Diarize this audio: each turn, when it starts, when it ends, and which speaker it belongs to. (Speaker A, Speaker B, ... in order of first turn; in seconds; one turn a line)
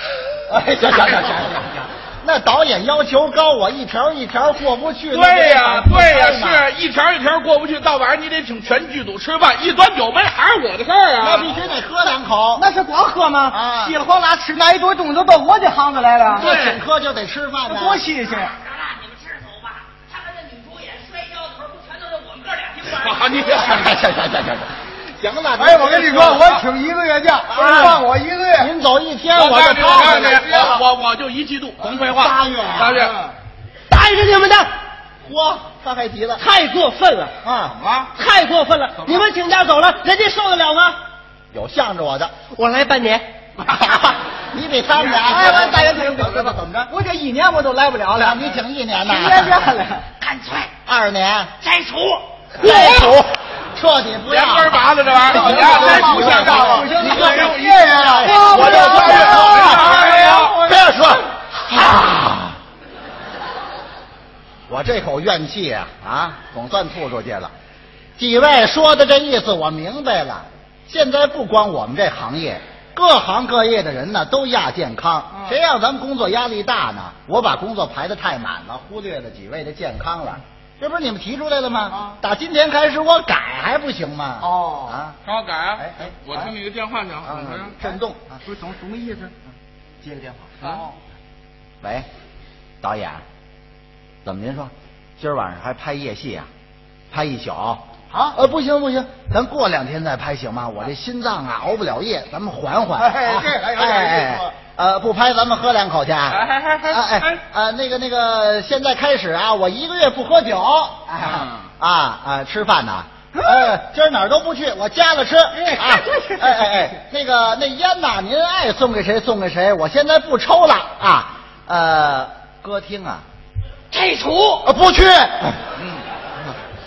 Speaker A: 0.5-6.7
Speaker B: 5.1-11.5
Speaker A: 11.2-12.7
Speaker C: 12.6-16.6
Speaker A: 13.5-14.0
Speaker A: 16.3-18.1
Speaker C: 17.8-18.5
Speaker D: 18.3-23.8
Speaker B: 22.9-24.0
Speaker A: 23.5-26.6
Speaker E: 25.6-28.7
Speaker B: 26.3-26.6
Speaker A: 27.5-28.0
Speaker A: 28.6-30.7
Speaker B: 29.3-33.2
Speaker E: 29.9-30.8
Speaker A: 32.0-33.0
Speaker E: 32.9-33.4
Speaker F: 33.9-34.7
Speaker A: 35.2-36.4
Speaker F: 36.4-37.4
Speaker A: 37.4-37.8
Speaker B: 37.7-38.1
Speaker F: 38.1-41.0
Speaker A: 41.5-42.3
Speaker F: 42.5-43.3
Speaker A: 43.6-46.9
Speaker C: 45.2-48.4
Speaker A: 48.1-49.8
Speaker C: 49.1-50.0
Speaker D: 50.2-50.7
Speaker A: 50.9-51.5
Speaker D: 51.6-52.2
Speaker A: 52.6-62.6
Speaker B: 52.6-53.2
Speaker B: 54.3-60.6
Speaker E: 55.2-59.1
Speaker C: 55.5-57.0
Speaker F: 57.2-57.5
Speaker D: 58.2-59.2
Speaker A: 64.7-67.5
Speaker A: 68.2-85.2
Speaker E: 84.4-84.9
Speaker B: 85.3-87.8
Speaker A: 85.8-86.5
Speaker A: 87.2-88.4
Speaker C: 88.5-89.3
Speaker A: 90.0-90.9
Speaker A: 91.8-92.1
Speaker A: 92.8-93.2
Speaker A: 94.2-96.5
Speaker A: 97.1-123.2
Speaker E: 98.1-98.4
Speaker E: 103.0-104.5
Speaker B: 106.3-107.4
Speaker B: 111.2-111.7
Speaker C: 115.9-116.5
Speaker D: 123.9-124.7
Speaker A: 124.6-125.6